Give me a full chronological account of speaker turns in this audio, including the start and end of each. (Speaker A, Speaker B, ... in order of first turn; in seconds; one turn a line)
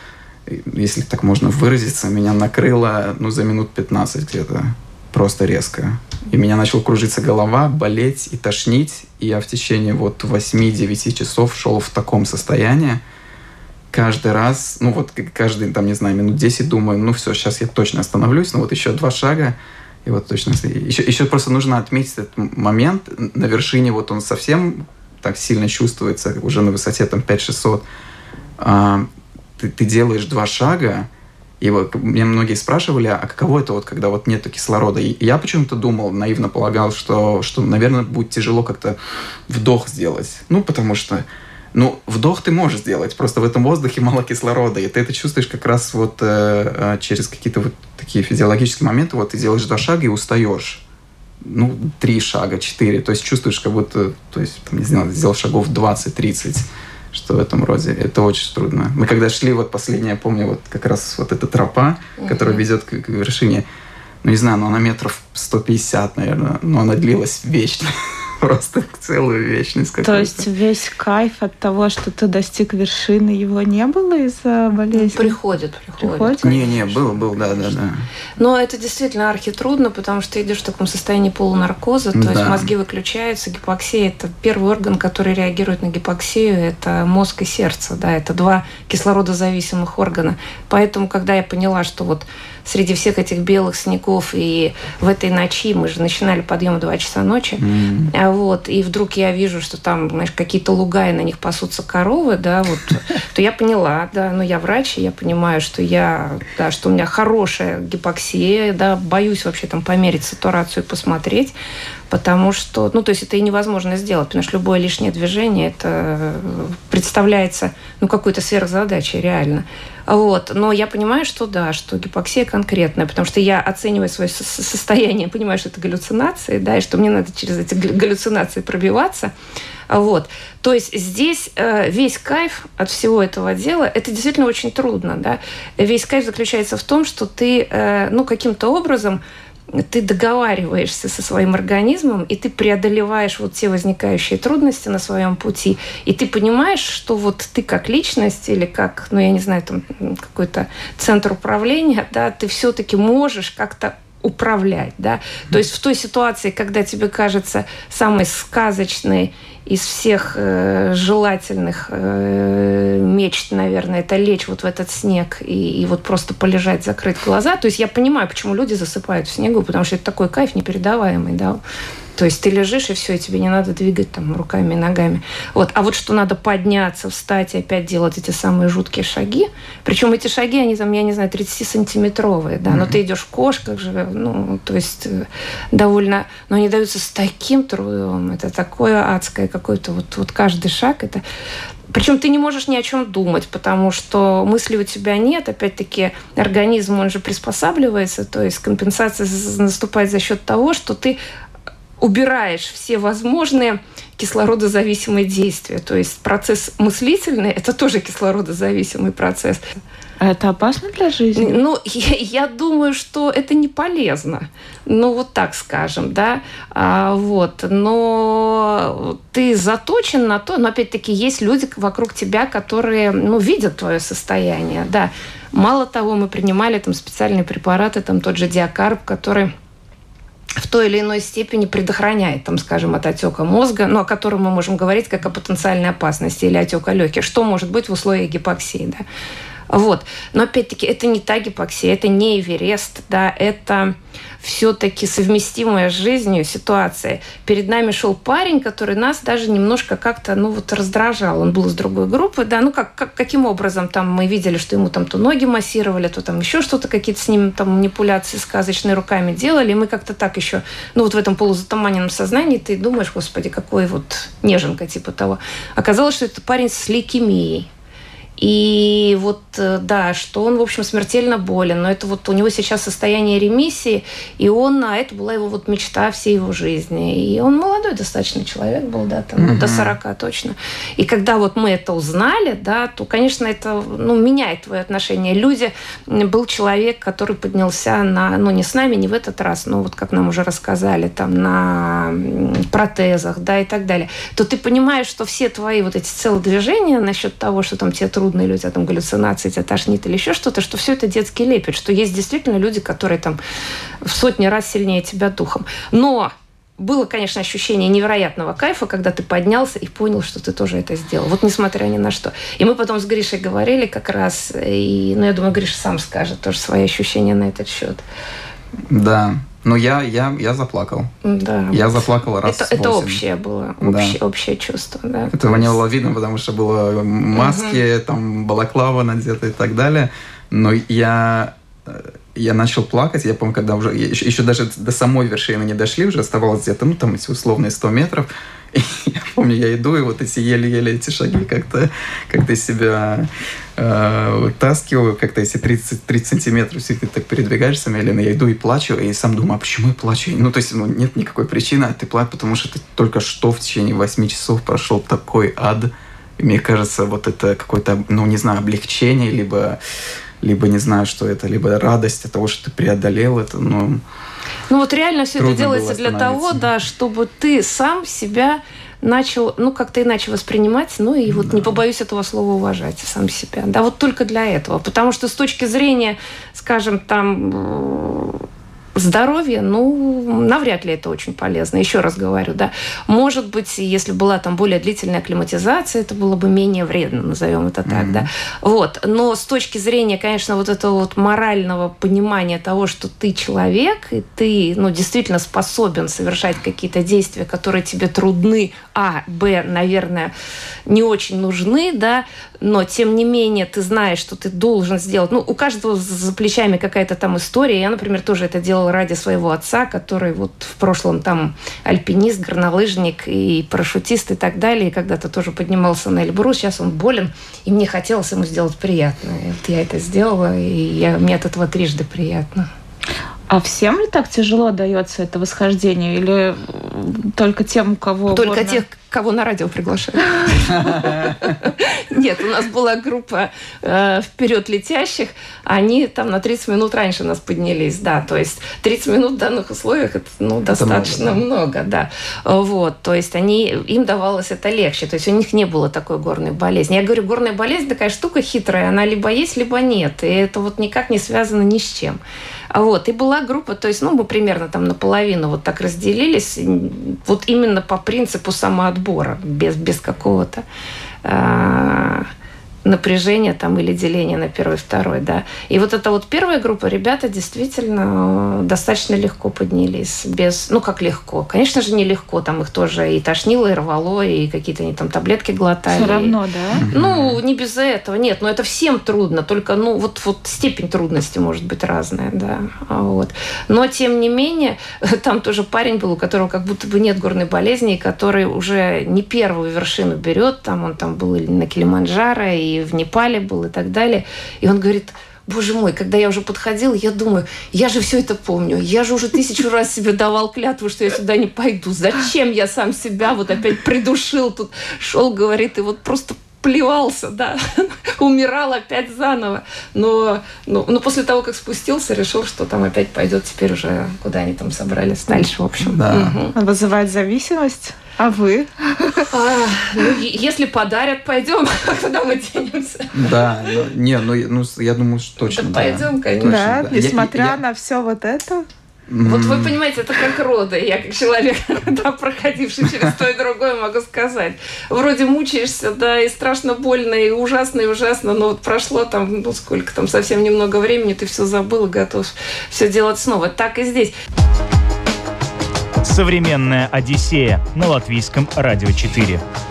Speaker A: 0.5-13.0
Speaker A: 13.9-27.8
Speaker A: 28.6-29.1
Speaker A: 29.6-31.1
Speaker A: 31.6-39.0
Speaker A: 39.5-50.8
Speaker A: 51.4-63.6
Speaker B: 62.2-62.6
Speaker A: 64.2-70.4
Speaker C: 70.0-75.4
Speaker B: 75.0-77.7
Speaker C: 76.0-76.6
Speaker A: 76.4-78.0
Speaker B: 78.4-111.5
Speaker A: 82.1-82.7
Speaker A: 97.6-98.1
Speaker B: 112.1-129.3
Speaker B: 129.9-139.2
Speaker B: 139.7-171.6
Speaker B: 172.2-191.2
Speaker A: 182.7-183.0
Speaker B: 191.9-201.2
Speaker B: 202.0-209.6
Speaker C: 210.2-211.6
Speaker B: 211.3-229.5
Speaker B: 230.6-239.0
Speaker B: 239.7-267.7
Speaker B: 268.4-303.4
Speaker A: 279.4-280.0
Speaker B: 304.0-318.0
Speaker A: 318.9-321.1
Speaker B: 321.2-321.9
Speaker A: 321.7-323.2
Speaker B: 322.4-325.8
Speaker A: 323.8-324.2
Speaker A: 325.3-359.8
Speaker B: 327.3-327.8
Speaker A: 360.4-364.0
Speaker B: 364.7-378.4
Speaker A: 365.4-366.7
Speaker A: 371.3-371.8
Speaker B: 378.9-400.3
Speaker A: 387.9-388.3
Speaker B: 400.9-422.7
Speaker C: 423.5-428.8
Speaker B: 428.3-452.2
Speaker A: 430.7-431.4
Speaker A: 440.7-441.4
Speaker B: 452.7-460.6
Speaker B: 461.2-462.3
Speaker B: 462.8-476.4
Speaker C: 475.9-476.8
Speaker A: 476.8-477.4
Speaker B: 476.9-516.5
Speaker A: 515.8-516.3
Speaker C: 516.5-519.3
Speaker B: 519.3-523.2
Speaker A: 523.1-527.6
Speaker B: 525.4-527.0
Speaker C: 526.4-528.7
Speaker A: 529.1-529.8
Speaker B: 529.2-544.1
Speaker D: 546.0-549.4